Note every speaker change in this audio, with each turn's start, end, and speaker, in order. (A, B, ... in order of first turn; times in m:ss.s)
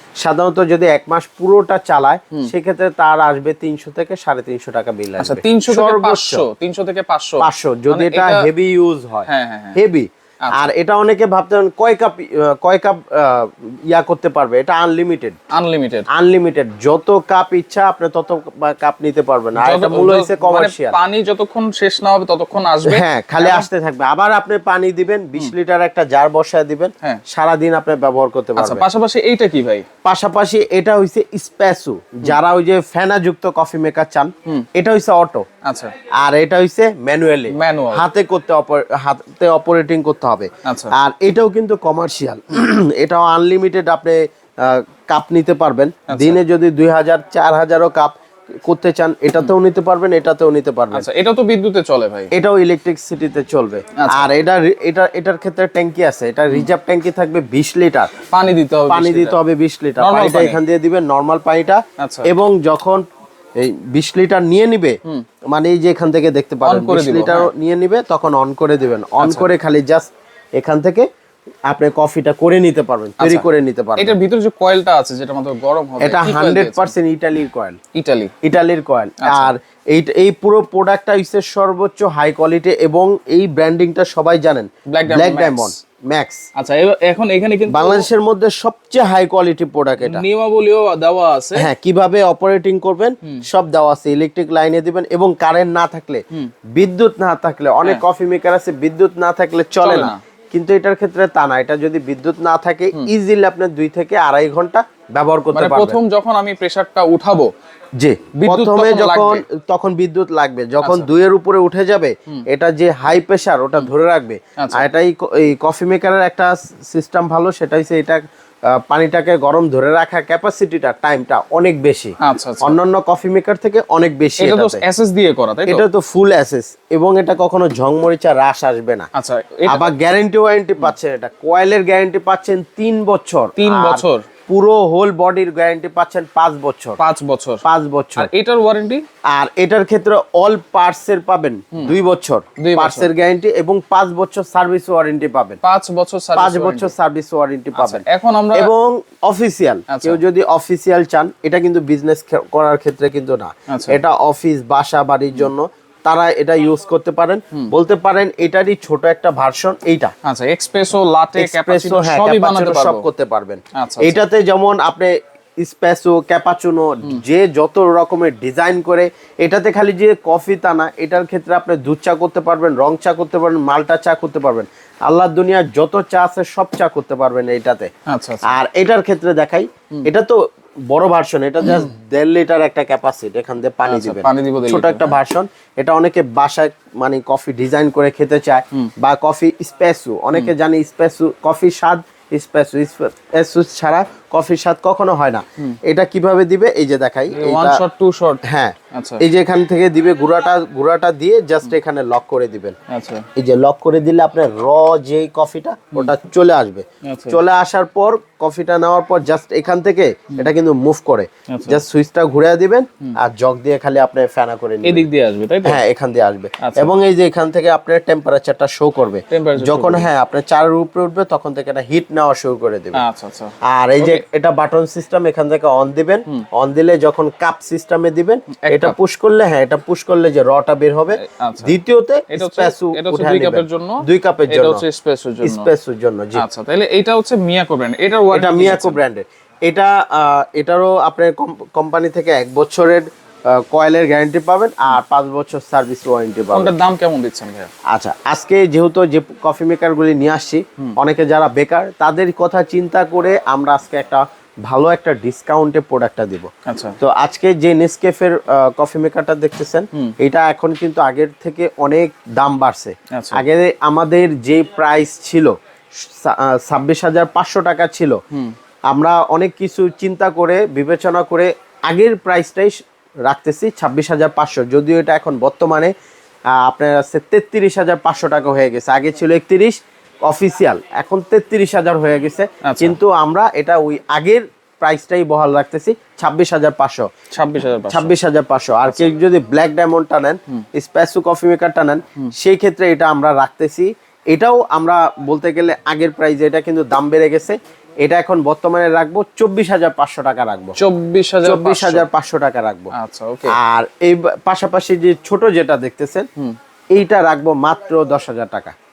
0:00.2-0:06.4 A
0:05.2-0:08.5 B
0:07.4-0:15.4 A
0:09.3-0:09.8 B
0:15.5-0:16.1 B
0:16.1-0:21.0 A
0:19.6-0:23.7 B
0:22.8-0:28.8 A
0:28.6-0:29.9 B
0:30.0-0:35.5 A
0:35.6-0:35.9 B
0:36.2-0:48.1 A
0:37.5-0:38.0 B
0:40.6-0:41.0 B
0:46.1-0:46.4 B
0:48.6-0:51.0 A
0:50.9-0:52.3 B
0:52.3-0:58.1 A
0:54.0-0:54.3 B
0:58.3-0:59.4 B
0:58.9-1:03.0 A
1:00.0-1:00.6 B
1:02.0-1:02.3 B
1:03.6-1:11.1 A
1:06.6-1:07.5 B
1:09.2-1:09.5 B
1:11.7-1:14.1 A
1:13.2-1:16.9 B
1:16.0-1:17.8 A
1:18.0-1:18.3 B
1:18.4-1:26.4 A
1:19.2-1:19.5 B
1:24.9-1:25.7 B
1:26.6-1:28.1 B
1:27.7-1:30.3 A
1:30.0-1:31.7 B
1:31.6-1:46.0 A
1:39.8-1:40.2 B
1:45.5-1:47.5 B
1:48.0-2:04.8 A
1:48.4-1:49.4 B
1:50.8-1:51.1 B
1:54.6-1:54.8 B
2:02.2-2:02.8 B
2:04.4-2:05.9 B
2:05.7-2:09.1 A
2:09.1-2:09.9 B
2:09.7-2:17.0 A
2:13.6-2:14.3 B
2:17.0-2:17.6 B
2:17.6-2:18.3 A
2:18.2-2:19.0 B
2:19.3-2:25.6 A
2:22.6-2:23.1 B
2:25.6-2:26.9 B
2:26.4-2:40.1 A
2:27.8-2:28.7 B
2:29.9-2:30.2 B
2:33.7-2:34.0 B
2:40.2-2:43.1 B
2:41.4-2:57.9 A
2:43.8-2:44.2 B
2:58.1-2:58.5 B
2:58.4-3:17.8 A
3:01.6-3:01.9 B
3:03.8-3:05.2 B
3:17.3-3:19.2 B
3:18.4-3:22.8 A
3:22.9-3:23.3 B
3:23.4-3:35.0 A
3:27.1-3:27.4 B
3:31.5-3:31.8 B
3:34.8-3:35.8 B
3:35.6-3:43.0 A
3:36.6-3:36.9 B
3:39.3-3:40.1 B
3:43.0-3:44.2 B
3:43.6-3:54.8 A
3:48.5-3:49.0 B
3:51.2-3:51.7 B
3:52.3-3:55.7 B
3:55.4-3:56.4 A
3:56.4-3:59.0 B
3:58.3-4:06.7 A
4:06.5-4:07.7 B
4:07.9-4:25.5 A
4:16.7-4:17.0 B
4:23.1-4:23.4 B
4:26.1-4:28.2 A
4:28.9-4:35.9 A
4:36.5-4:47.1 A
4:42.6-4:43.0 B
4:47.3-4:48.1 B
4:47.9-5:00.8 A
4:48.8-4:49.1 B
5:00.8-5:02.1 B
5:01.4-5:02.9 A
5:02.9-5:03.6 B
5:03.5-5:06.3 A
5:06.9-5:08.8 A